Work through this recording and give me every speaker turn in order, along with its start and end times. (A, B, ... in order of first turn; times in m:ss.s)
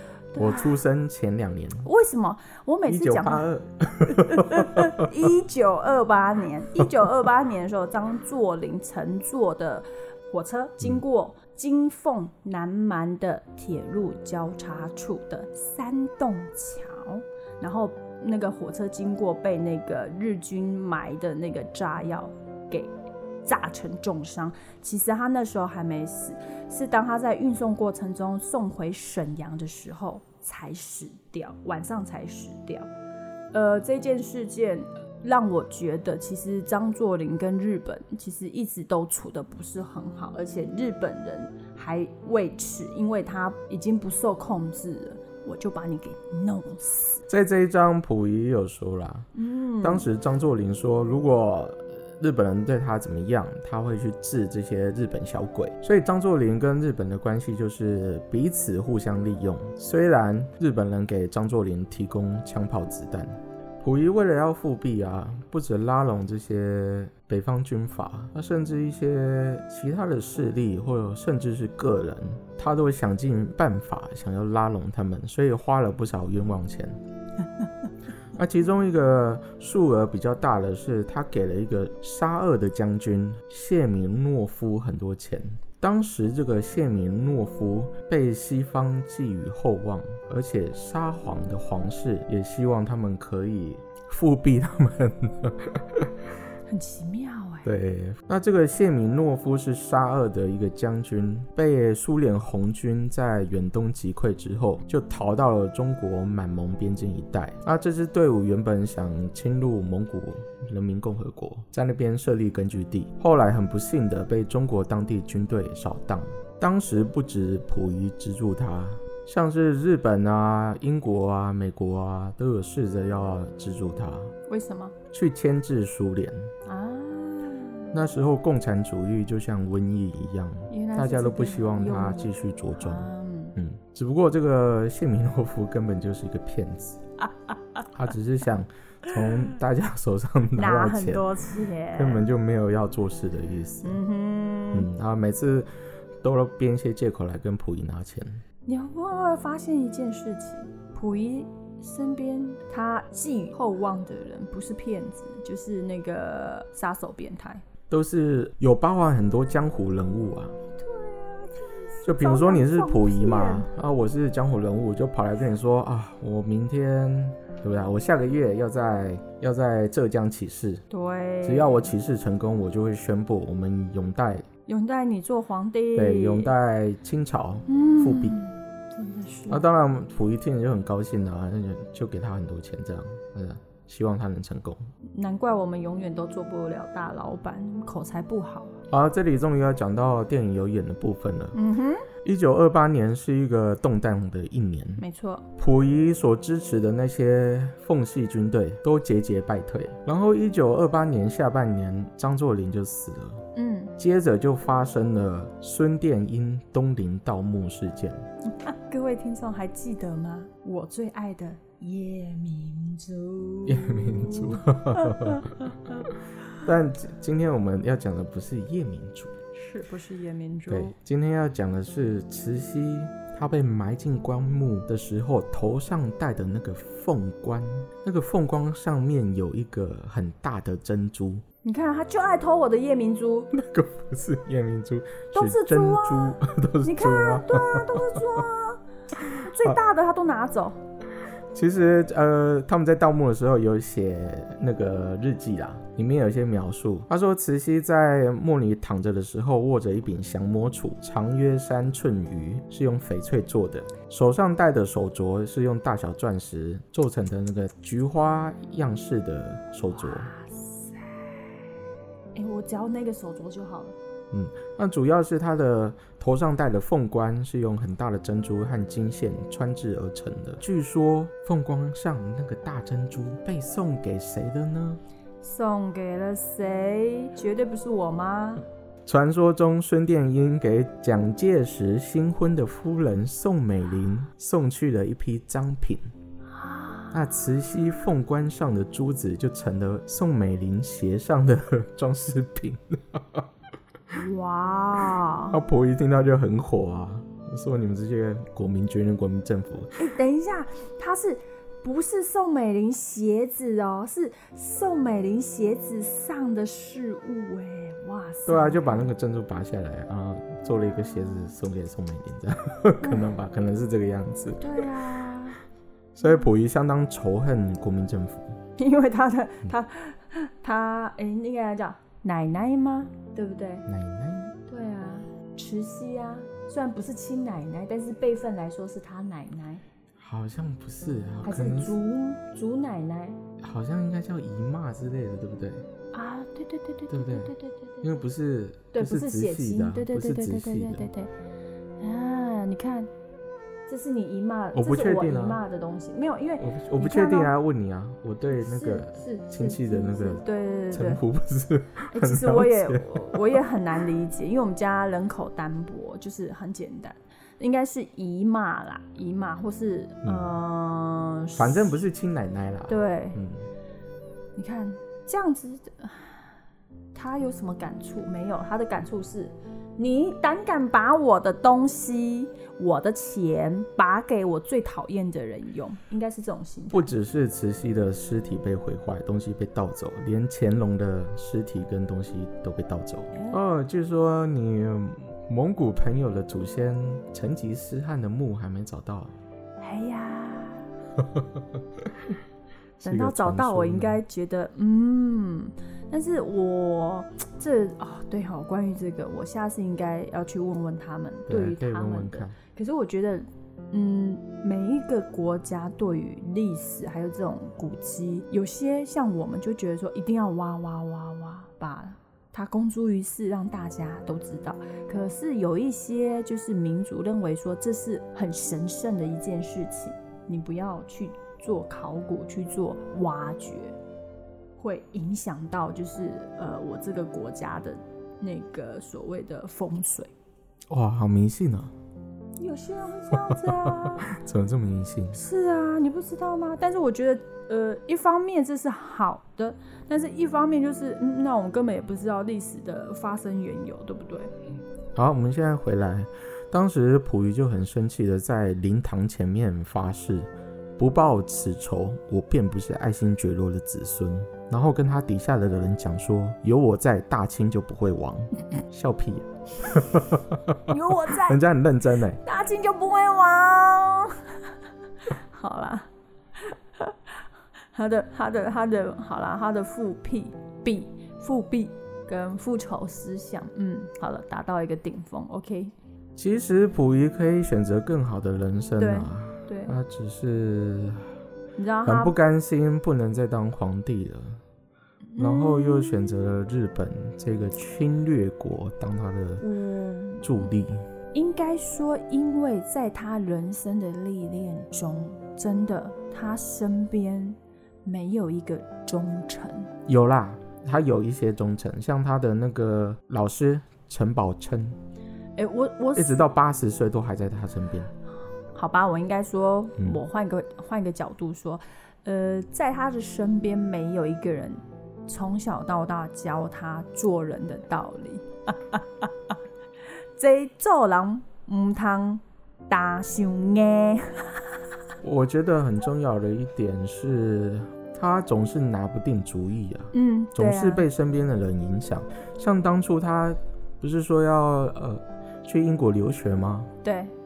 0:00.3-0:00.8 A
0:00.4-0:01.9 B
0:01.8-0:03.5 A
0:02.9-0:05.1 B
0:04.0-0:22.9 A
0:23.4-0:32.9 A
0:33.5-0:47.2 A
0:47.3-0:49.3 B
0:49.4-0:50.1 A
0:49.8-1:17.0 B
1:18.4-1:36.1 B
1:36.7-1:37.7 A
1:37.6-2:04.3 B
2:04.5-2:04.9 A
2:05.1-2:06.5 B
2:06.6-2:08.0 A
2:07.9-2:17.0 B
2:10.7-2:13.6 A
2:17.2-2:17.9 A
2:17.9-2:21.3 B
2:20.6-2:22.3 A
2:21.9-2:24.0 B
2:23.8-2:24.9 A
2:24.7-2:25.7 B
2:26.2-2:28.4 B
2:28.7-2:37.6 A
2:37.9-2:40.6 B
2:40.8-2:43.7 A
2:42.0-2:50.8 B
2:50.9-2:51.9 A
2:51.4-2:54.5 B
2:54.7-2:56.5 A
2:55.9-2:58.4 B
2:57.7-2:59.6 A
2:59.5-3:04.8 B
3:05.1-3:08.8 A
3:08.9-3:11.6 B
3:11.5-3:12.1 A
3:12.2-3:15.0 B
3:15.0-3:15.5 A
3:15.6-3:23.4 B
3:23.6-3:23.9 A
3:24.0-3:28.2 B
3:28.5-3:34.4 A
3:33.6-3:39.4 B
3:34.9-3:36.1 A
3:39.5-3:40.9 A
3:40.7-3:51.4 B
3:51.6-3:53.5 A
3:53.5-3:58.4 B
3:55.3-3:58.8 A
3:59.2-3:59.8 B
3:59.3-4:00.8 A
4:01.5-4:20.3 B
4:19.9-4:21.6 A
4:22.4-4:24.0 A
4:24.3-4:35.0 B
4:35.4-4:38.6 A
4:39.1-4:46.0 B
4:46.5-4:47.2 A
4:47.1-4:53.5 B
4:54.1-4:55.6 A
4:55.5-5:00.0 B
5:00.0-5:09.1 A
5:08.5-5:14.8 B
5:10.6-5:11.5 A
5:14.6-5:15.6 A
5:16.2-5:18.6 B
5:18.8-5:23.9 A
5:23.9-5:24.5 B
5:24.7-5:29.8 A
5:30.2-5:32.0 B
5:31.4-5:33.4 A
5:33.6-5:35.8 B
5:36.1-5:38.2 A
5:37.1-5:41.1 B
5:38.9-5:41.3 A
5:42.0-5:43.1 A
5:43.9-5:47.5 A
5:44.7-5:45.6 B
5:46.6-5:53.6 B
5:48.5-5:51.2 A
5:52.1-6:02.0 A
6:00.2-6:00.5 B
6:01.6-6:03.7 B
6:02.9-6:03.4 A
6:04.6-6:06.5 A
6:07.1-6:17.1 A
6:16.9-6:29.4 B
6:23.3-6:23.6 A
6:29.8-6:30.9 A
6:31.2-6:31.6 B
6:33.0-7:04.0 A
6:33.0-6:34.2 B
6:41.5-6:42.6 B
7:04.8-7:10.3 A
7:10.9-7:11.9 B
7:12.6-7:14.3 A
7:13.3-7:15.4 B
7:15.3-7:24.5 A
7:25.2-7:42.4 B
7:40.9-7:41.6 A
7:42.4-7:44.7 A
7:45.3-7:46.1 A
7:46.6-7:47.2 A
7:47.9-7:55.9 A
7:56.4-8:01.2 B
7:59.0-8:00.0 A
8:01.8-8:02.4 A
8:02.0-8:04.6 B
8:05.3-8:06.4 A
8:05.4-8:09.7 B
8:09.6-8:10.7 A
8:10.4-8:11.1 B
8:11.3-8:19.9 A
8:20.1-8:25.0 B
8:25.6-8:26.5 A
8:26.2-8:28.1 B
8:28.7-8:39.5 A
8:40.4-8:44.7 A
8:45.2-8:56.9 B
8:50.1-8:51.1 A
8:57.0-8:57.3 A